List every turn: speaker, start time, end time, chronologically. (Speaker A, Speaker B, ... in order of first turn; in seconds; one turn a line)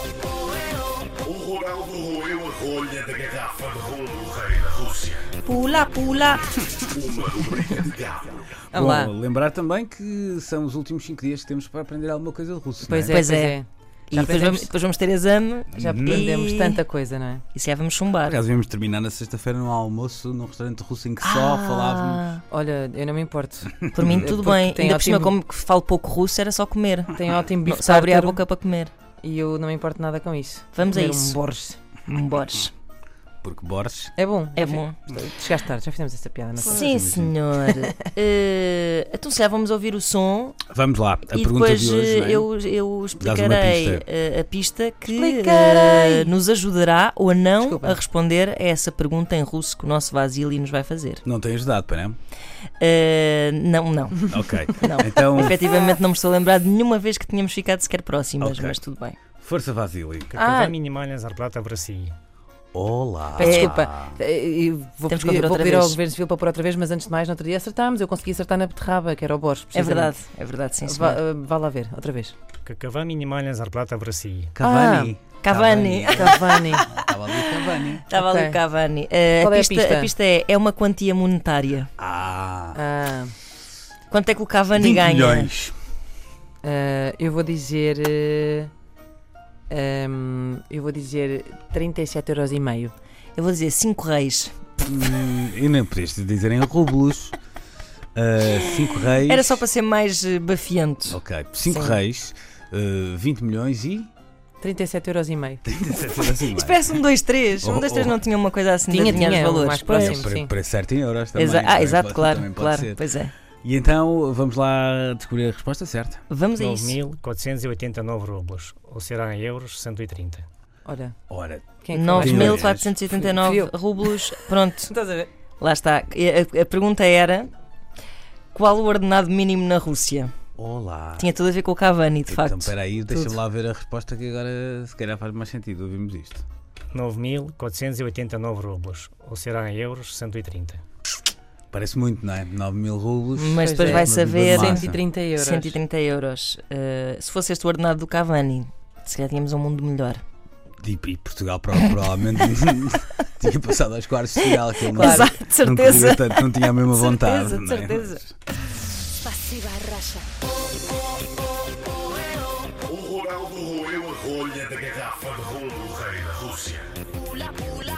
Speaker A: 1.2-5.3
Speaker B: 5.4-6.6
Speaker A: 6.9-8.4
Speaker C: 8.7-9.1
Speaker D: 8.7-13.2
Speaker C: 12.8-14.7
Speaker B: 13.1-13.6
Speaker B: 14.1-16.8
Speaker D: 15.7-16.3
Speaker C: 15.8-17.4
Speaker B: 17.5-18.4
Speaker D: 18.2-22.3
Speaker B: 21.2-22.4
Speaker C: 22.5-25.4
Speaker D: 23.7-24.4
Speaker B: 23.9-28.9
Speaker C: 27.1-28.4
Speaker C: 29.2-31.8
Speaker B: 30.7-31.4
Speaker B: 32.0-32.7
Speaker D: 33.4-34.1
Speaker C: 34.2-36.8
Speaker B: 34.5-35.0
Speaker B: 36.6-40.6
Speaker D: 36.7-37.4
Speaker D: 40.6-42.5
Speaker B: 41.3-51.2
Speaker D: 43.2-44.0
Speaker C: 45.1-46.3
Speaker C: 47.6-48.0
Speaker D: 51.2-52.2
Speaker B: 52.8-59.2
Speaker D: 54.3-55.6
Speaker D: 58.4-58.8
Speaker D: 59.4-60.3
Speaker E: 60.3-62.1
Speaker C: 60.4-60.7
Speaker D: 62.7-64.2
Speaker C: 63.4-70.1
Speaker B: 63.4-63.7
Speaker B: 65.1-66.0
Speaker B: 69.7-71.2
Speaker C: 70.8-72.3
Speaker E: 72.6-74.5
Speaker D: 74.5-78.1
Speaker C: 74.6-75.1
Speaker B: 75.4-81.9
Speaker C: 76.1-77.0
Speaker C: 78.1-78.6
Speaker C: 79.3-80.1
Speaker D: 82.0-82.8
Speaker C: 82.7-83.3
Speaker B: 84.1-85.5
Speaker D: 84.7-85.8
Speaker C: 86.6-88.7
Speaker C: 89.7-92.9
Speaker B: 93.3-94.6
Speaker D: 94.8-97.4
Speaker D: 98.1-99.6
Speaker B: 98.5-101.2
Speaker D: 101.1-104.1
Speaker C: 101.7-102.0
Speaker C: 104.6-105.6
Speaker D: 105.6-107.0
Speaker B: 106.4-110.3
Speaker D: 107.6-108.2
Speaker C: 108.9-110.5
Speaker D: 109.0-113.0
Speaker B: 111.3-113.3
Speaker D: 113.6-116.2
Speaker B: 116.3-117.0
Speaker E: 116.5-120.5
Speaker C: 120.8-121.2
Speaker D: 121.3-122.9
Speaker C: 121.8-124.2
Speaker B: 121.9-124.9
Speaker C: 124.9-125.3
Speaker B: 125.6-127.5
Speaker B: 128.5-130.3
Speaker D: 130.6-131.3
Speaker B: 131.2-132.7
Speaker D: 132.3-136.4
Speaker C: 133.1-133.3
Speaker E: 136.9-140.8
Speaker D: 141.7-145.0
Speaker B: 143.3-150.2
Speaker C: 143.6-145.8
Speaker D: 150.8-158.3
Speaker B: 151.8-152.5
Speaker B: 154.4-158.2
Speaker C: 154.9-155.3
Speaker C: 159.2-160.2
Speaker A: 162.8-167.8